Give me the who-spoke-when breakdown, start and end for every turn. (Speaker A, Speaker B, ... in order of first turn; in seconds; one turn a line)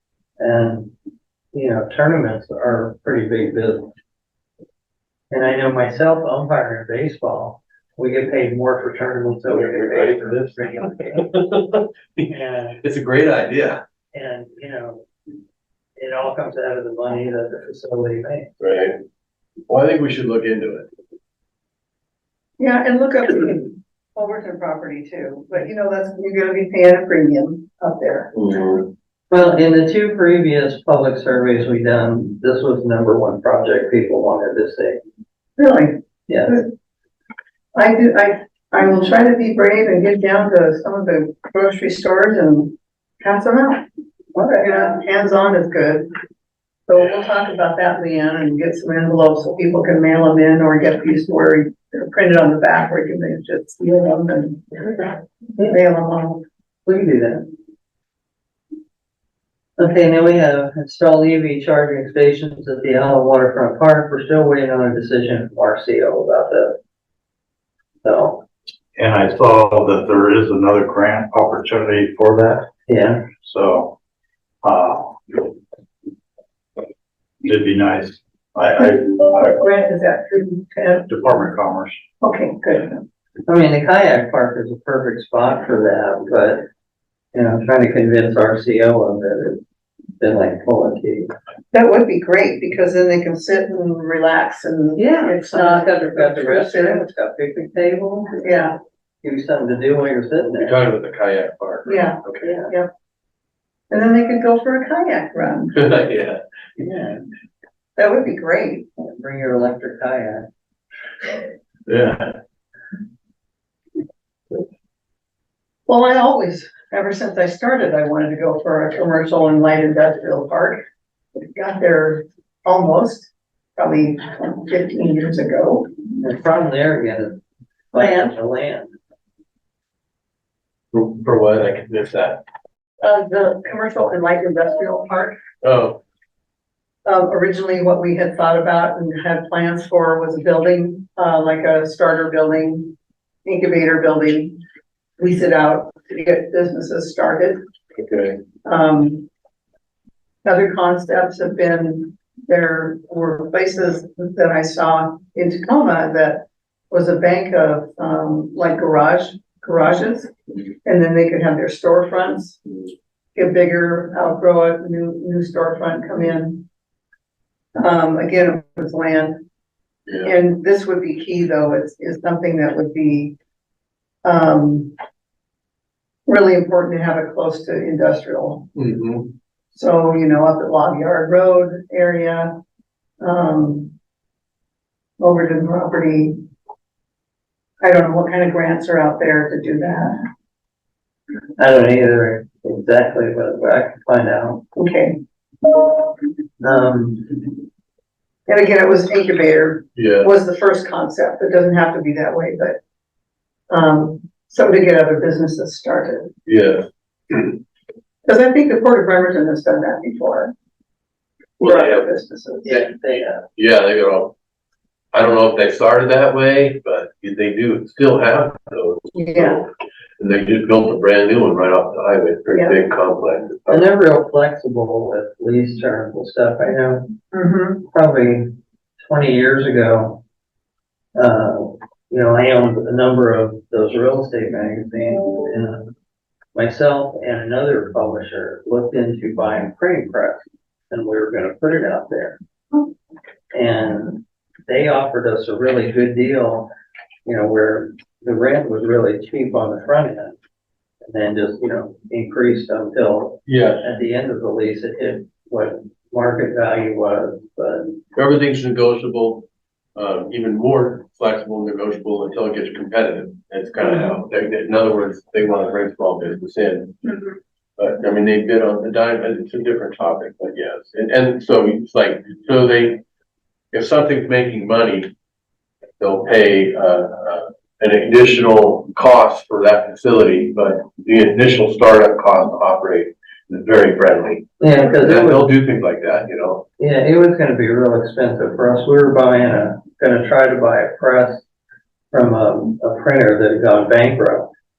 Speaker A: 0.4-0.9
Speaker A: 1.5-3.9
Speaker A: 5.3-11.3
Speaker B: 9.5-13.8
Speaker A: 12.3-12.8
Speaker A: 14.1-15.1
Speaker A: 16.0-18.5
Speaker B: 18.6-19.0
Speaker B: 19.7-20.9
Speaker C: 22.6-28.3
Speaker B: 28.3-28.9
Speaker A: 29.3-35.0
Speaker C: 35.6-36.7
Speaker A: 36.3-36.6
Speaker C: 37.8-43.8
Speaker A: 44.4-45.0
Speaker C: 44.6-46.1
Speaker C: 46.9-56.4
Speaker A: 56.9-57.5
Speaker A: 59.8-66.8
Speaker A: 68.0-68.4
Speaker D: 69.0-72.7
Speaker A: 72.9-73.3
Speaker D: 73.4-74.0
Speaker D: 74.6-75.5
Speaker D: 77.4-79.6
Speaker C: 79.5-81.4
Speaker D: 81.1-82.0
Speaker C: 82.2-83.0
Speaker A: 83.5-86.7
Speaker A: 87.3-89.6
Speaker A: 90.2-91.3
Speaker C: 91.7-97.1
Speaker A: 95.0-100.8
Speaker C: 98.4-98.8
Speaker B: 100.6-102.6
Speaker C: 101.9-102.9
Speaker A: 102.4-102.7
Speaker C: 103.9-105.8
Speaker B: 105.7-106.4
Speaker A: 106.8-107.2
Speaker C: 108.0-108.9
Speaker A: 109.0-110.5
Speaker B: 111.9-112.4
Speaker C: 115.9-120.8
Speaker C: 121.3-125.9
Speaker A: 126.2-127.4
Speaker C: 127.9-128.3
Speaker A: 127.9-128.9
Speaker B: 130.9-132.4
Speaker C: 133.0-135.4
Speaker B: 135.6-136.0
Speaker C: 137.1-144.6
Speaker C: 145.2-147.6
Speaker B: 148.0-148.4
Speaker C: 148.6-149.3
Speaker C: 150.4-160.3
Speaker C: 160.8-162.6
Speaker C: 163.3-166.7
Speaker C: 167.8-169.4
Speaker C: 170.2-173.3
Speaker C: 174.2-174.9
Speaker C: 176.3-178.7
Speaker B: 178.8-179.3
Speaker C: 179.7-182.6
Speaker C: 183.2-183.9
Speaker C: 185.2-186.4
Speaker C: 187.8-190.3
Speaker A: 191.6-194.6
Speaker C: 194.8-195.2
Speaker A: 196.6-197.4
Speaker C: 198.5-202.8
Speaker B: 200.0-200.3
Speaker C: 203.7-206.3
Speaker B: 206.4-207.5
Speaker C: 208.2-210.5
Speaker B: 211.6-212.1
Speaker C: 211.6-212.7
Speaker A: 212.7-213.4
Speaker B: 212.7-212.9
Speaker B: 213.6-214.3
Speaker B: 215.1-223.9
Speaker C: 219.2-219.6
Speaker C: 222.5-222.8
Speaker A: 223.7-227.1
Speaker C: 227.3-227.8
Speaker A: 227.9-230.2
Speaker A: 231.2-235.9
Speaker A: 236.6-242.4
Speaker A: 243.5-246.7
Speaker A: 247.2-250.4
Speaker A: 251.1-258.0
Speaker B: 253.5-253.9
Speaker B: 258.1-267.1
Speaker B: 267.8-273.0
Speaker B: 273.7-275.1
Speaker B: 276.0-286.7
Speaker A: 284.6-285.5
Speaker A: 286.8-291.4
Speaker A: 292.1-294.5